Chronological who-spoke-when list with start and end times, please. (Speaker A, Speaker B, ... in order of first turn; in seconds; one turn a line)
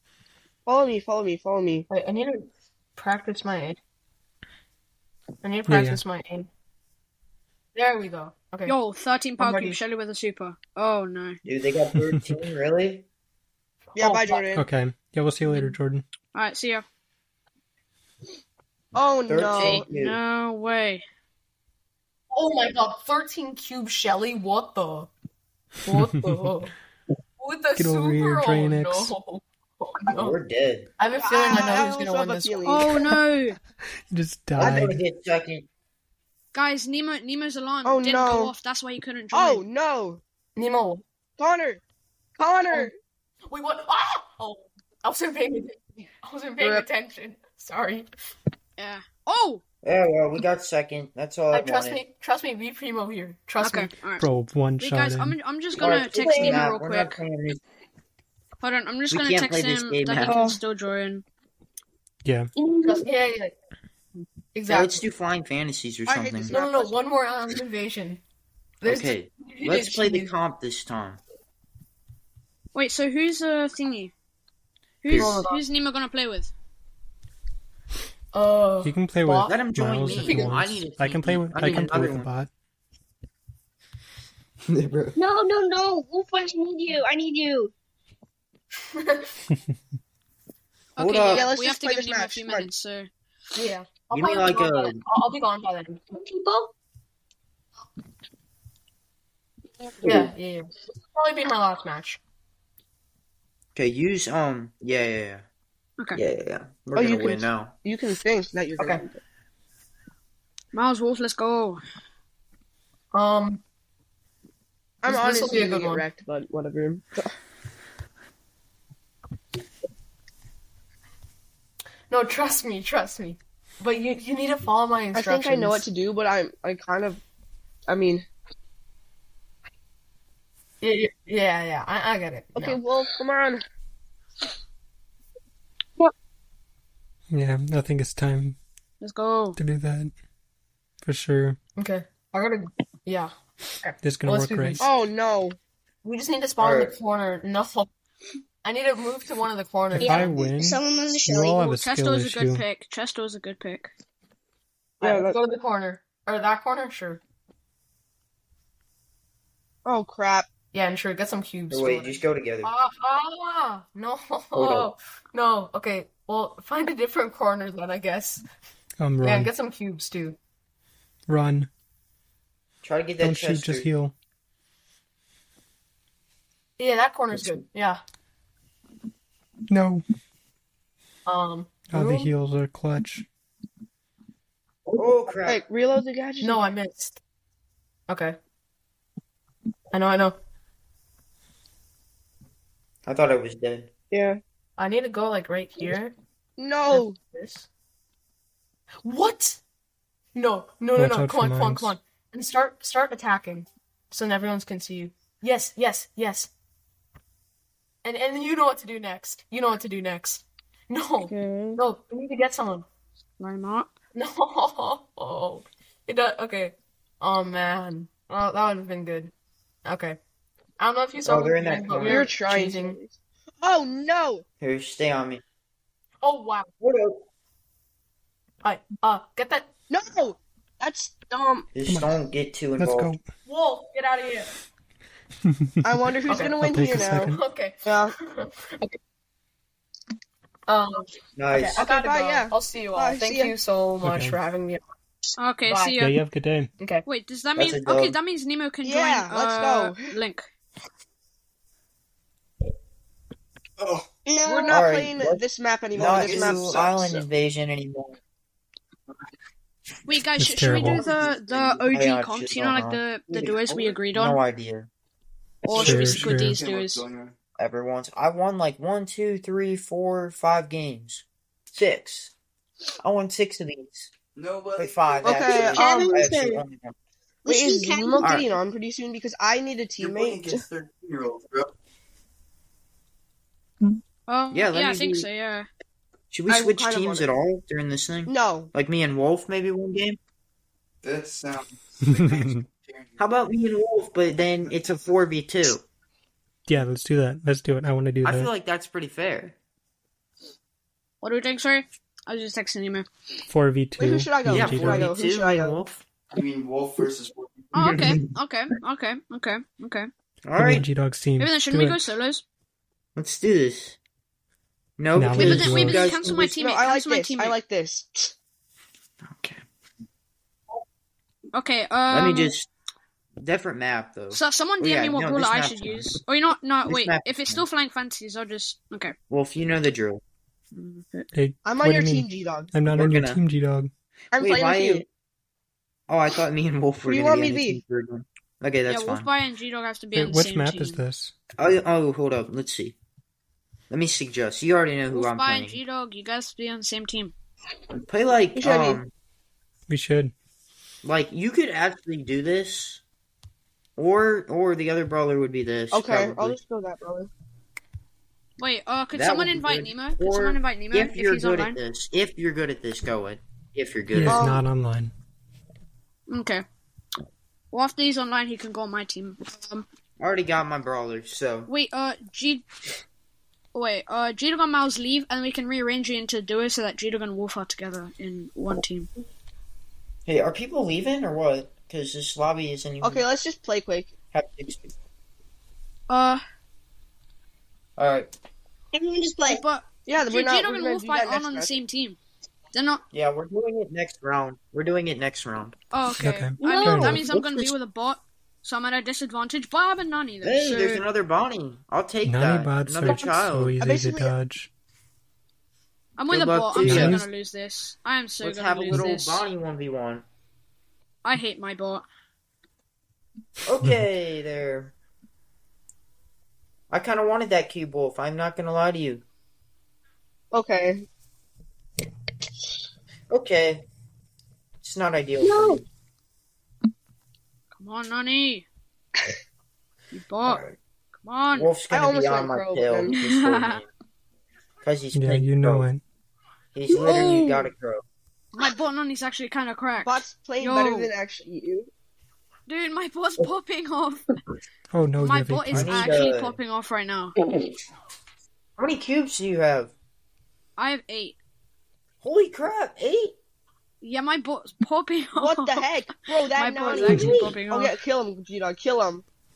Speaker A: 0.7-1.9
Speaker B: 1.9-3.8
Speaker B: 5.4-6.5
Speaker C: 5.7-6.0
Speaker B: 7.7-8.7
Speaker D: 8.7-11.4
Speaker B: 9.4-9.8
Speaker E: 11.4-13.1
Speaker B: 13.9-14.5
Speaker A: 13.9-14.6
Speaker C: 14.5-16.0
Speaker B: 15.5-15.7
Speaker D: 16.3-16.8
Speaker A: 18.9-19.8
Speaker E: 19.3-20.2
Speaker D: 19.6-21.0
Speaker B: 22.3-25.1
Speaker B: 25.8-26.7
Speaker C: 25.9-26.4
Speaker B: 27.4-30.4
Speaker C: 27.8-29.1
Speaker E: 30.1-30.9
Speaker B: 31.0-33.1
Speaker A: 31.2-33.0
Speaker D: 32.6-33.6
Speaker C: 34.1-35.0
Speaker E: 34.6-35.7
Speaker D: 36.5-39.6
Speaker A: 37.8-38.5
Speaker A: 39.3-40.2
Speaker B: 40.5-41.0
Speaker A: 41.4-41.8
Speaker A: 42.4-42.9
Speaker B: 43.5-48.1
Speaker A: 46.6-46.9
Speaker D: 48.8-49.6
Speaker E: 49.8-52.0
Speaker B: 51.5-54.0
Speaker D: 53.6-54.3
Speaker C: 54.2-55.4
Speaker D: 54.8-57.2
Speaker E: 55.8-57.6
Speaker D: 58.6-61.2
Speaker E: 59.1-60.4
Speaker A: 60.2-60.6
Speaker C: 62.2-62.5
Speaker F: 62.5-63.1
Speaker B: 62.8-63.5
Speaker B: 64.5-65.0
Speaker E: 64.7-66.6
Speaker A: 66.0-67.0
Speaker B: 66.5-68.2
Speaker B: 68.8-70.3
Speaker E: 68.8-71.2
Speaker D: 72.7-74.1
Speaker D: 75.0-76.5
Speaker E: 75.1-75.4
Speaker B: 75.1-75.6
Speaker B: 78.3-80.6
Speaker C: 78.8-82.5
Speaker E: 79.5-82.3
Speaker E: 84.7-85.2
Speaker F: 85.2-87.7
Speaker B: 88.9-89.3
Speaker D: 91.0-93.1
Speaker E: 91.0-91.5
Speaker A: 91.2-92.7
Speaker B: 93.5-96.0
Speaker E: 94.1-95.0
Speaker F: 96.1-96.7
Speaker B: 100.0-102.2
Speaker E: 103.7-105.5
Speaker E: 106.1-107.7
Speaker A: 106.9-109.2
Speaker D: 110.7-111.8
Speaker B: 113.1-113.6
Speaker A: 115.0-117.3
Speaker B: 115.0-116.0
Speaker B: 122.1-125.8
Speaker A: 125.1-127.2
Speaker A: 127.9-128.2
Speaker B: 130.8-132.8
Speaker A: 132.6-133.6
Speaker C: 137.3-138.6
Speaker D: 139.0-139.6
Speaker C: 139.6-140.1
Speaker C: 141.0-141.6
Speaker B: 141.8-144.9
Speaker C: 144.0-144.8
Speaker A: 144.8-145.6
Speaker B: 146.0-147.9
Speaker E: 146.6-146.9
Speaker B: 148.6-150.5
Speaker C: 149.9-152.6
Speaker F: 150.0-151.7
Speaker D: 151.6-153.9
Speaker B: 155.0-157.2
Speaker A: 155.0-155.4
Speaker A: 159.8-160.5
Speaker B: 160.7-168.4
Speaker E: 161.7-162.7
Speaker E: 164.5-164.9
Speaker C: 169.0-169.5
Speaker B: 169.2-170.4
Speaker C: 171.3-171.7
Speaker E: 172.8-173.9
Speaker C: 173.2-174.1
Speaker B: 176.8-178.0
Speaker C: 179.7-180.0
Speaker B: 181.2-182.3
Speaker C: 181.9-183.2
Speaker E: 184.9-185.6
Speaker A: 185.4-186.7
Speaker B: 186.4-187.2
Speaker B: 188.1-188.4
Speaker B: 189.9-190.4
Speaker E: 193.1-193.9
Speaker A: 194.1-194.4
Speaker B: 194.8-196.1
Speaker A: 196.6-197.2
Speaker B: 196.9-197.7
Speaker B: 199.0-199.6
Speaker B: 200.3-206.5
Speaker C: 200.9-201.9
Speaker B: 208.0-212.8
Speaker D: 211.2-211.8
Speaker D: 213.4-213.9
Speaker B: 214.1-219.3
Speaker B: 219.8-220.2
Speaker B: 220.8-223.0
Speaker E: 221.2-222.3
Speaker A: 221.9-224.4
Speaker E: 224.6-225.4
Speaker B: 226.2-226.7
Speaker E: 226.8-227.2
Speaker B: 228.6-229.7
Speaker A: 229.9-231.7
Speaker E: 231.7-233.1
Speaker C: 231.8-232.1
Speaker C: 232.8-233.3
Speaker B: 233.4-234.5
Speaker C: 235.5-235.8
Speaker A: 235.8-237.3
Speaker B: 236.3-239.0
Speaker C: 236.5-237.4
Speaker A: 237.8-238.1
Speaker B: 240.7-244.8
Speaker E: 241.3-241.9
Speaker A: 241.8-243.5
Speaker C: 244.0-244.4
Speaker D: 245.4-246.2
Speaker B: 245.7-246.1
Speaker C: 246.0-246.7
Speaker B: 246.8-247.0
Speaker D: 247.0-250.5
Speaker E: 247.6-248.2
Speaker A: 248.8-250.0
Speaker G: 253.8-254.1
Speaker F: 254.2-254.8
Speaker A: 254.4-256.8
Speaker E: 254.7-255.4
Speaker G: 255.9-257.2
Speaker E: 255.9-258.2
Speaker D: 260.1-264.4
Speaker C: 260.4-261.0
Speaker E: 260.7-264.9
Speaker G: 265.6-267.3
Speaker D: 265.7-267.1
Speaker C: 265.7-266.5
Speaker E: 267.6-272.3
Speaker E: 273.0-274.1
Speaker G: 274.4-275.7
Speaker E: 274.8-276.9
Speaker A: 275.2-276.2
Speaker F: 275.5-276.6
Speaker F: 277.4-278.5
Speaker A: 277.5-280.6
Speaker E: 278.2-278.5
Speaker G: 280.0-281.7
Speaker D: 284.3-285.7
Speaker E: 284.5-285.3
Speaker E: 286.3-290.2
Speaker A: 286.5-287.3
Speaker A: 288.2-288.7
Speaker G: 291.0-293.2
Speaker C: 292.1-292.6
Speaker E: 293.2-295.8
Speaker C: 296.7-298.5
Speaker E: 298.2-299.6
Speaker D: 301.2-303.1
Speaker C: 303.5-305.1
Speaker A: 304.0-305.8
Speaker E: 304.5-306.0
Speaker G: 306.3-308.0
Speaker D: 307.7-310.1
Speaker E: 307.8-308.1
Speaker E: 310.4-310.9
Speaker C: 310.6-312.0
Speaker D: 311.4-312.4
Speaker E: 313.1-314.0
Speaker E: 315.0-316.5
Speaker C: 315.1-316.1
Speaker D: 315.3-317.6
Speaker A: 316.2-318.3
Speaker D: 321.5-322.5
Speaker E: 322.1-322.7
Speaker E: 323.4-326.2
Speaker D: 324.3-329.1
Speaker E: 326.9-327.6
Speaker E: 329.3-330.2
Speaker D: 330.7-331.3
Speaker C: 331.3-333.9
Speaker A: 331.6-332.7
Speaker E: 332.9-333.4
Speaker A: 334.3-335.0
Speaker E: 334.4-335.1
Speaker E: 336.1-339.3
Speaker A: 337.0-337.8
Speaker D: 338.9-341.0
Speaker C: 340.1-341.3
Speaker E: 341.6-343.0
Speaker E: 343.9-345.8
Speaker D: 345.1-347.3
Speaker E: 347.9-349.1
Speaker A: 348.6-349.0
Speaker C: 349.9-350.3
Speaker E: 351.0-353.0
Speaker E: 354.0-356.6
Speaker A: 355.9-357.3
Speaker D: 358.6-361.8
Speaker E: 359.1-364.5
Speaker C: 364.1-365.1
Speaker A: 364.3-364.6
Speaker D: 366.3-366.6
Speaker D: 367.7-369.9
Speaker E: 370.2-371.7
Speaker D: 371.7-372.6
Speaker D: 373.7-379.1
Speaker E: 380.2-383.2
Speaker A: 383.0-384.1
Speaker E: 384.3-384.9
Speaker D: 386.1-386.4
Speaker E: 388.0-388.3
Speaker F: 388.9-389.6
Speaker D: 389.4-392.2
Speaker A: 390.1-391.7
Speaker D: 392.7-393.0
Speaker E: 393.1-395.8
Speaker D: 395.9-401.0
Speaker C: 396.1-397.3
Speaker F: 396.6-397.3
Speaker E: 397.1-397.7
Speaker E: 400.4-403.8
Speaker C: 402.2-404.7
Speaker A: 403.8-404.3
Speaker D: 406.2-409.5
Speaker E: 406.3-407.2
Speaker C: 406.8-407.2
Speaker E: 408.4-410.2
Speaker D: 411.2-412.0
Speaker E: 413.6-414.9
Speaker E: 416.9-419.2
Speaker A: 420.5-421.1
Speaker E: 423.3-423.8
Speaker E: 424.8-425.8
Speaker F: 425.4-425.8
Speaker D: 427.8-428.6
Speaker D: 430.1-430.6
Speaker E: 430.4-430.8
Speaker D: 431.2-431.7
Speaker E: 431.5-433.9
Speaker A: 431.9-433.1
Speaker D: 433.1-433.8
Speaker E: 434.8-435.9
Speaker C: 435.1-436.0
Speaker E: 436.7-438.0
Speaker D: 436.9-437.7
Speaker D: 438.5-441.1
Speaker A: 440.0-441.9
Speaker D: 442.7-444.2
Speaker C: 444.9-446.2
Speaker D: 445.2-447.4
Speaker E: 445.7-446.6
Speaker E: 448.8-449.9
Speaker D: 450.8-451.4
Speaker E: 452.2-453.4
Speaker D: 454.0-455.9
Speaker A: 455.4-459.2
Speaker D: 456.4-457.9
Speaker E: 456.9-457.5
Speaker C: 457.0-457.4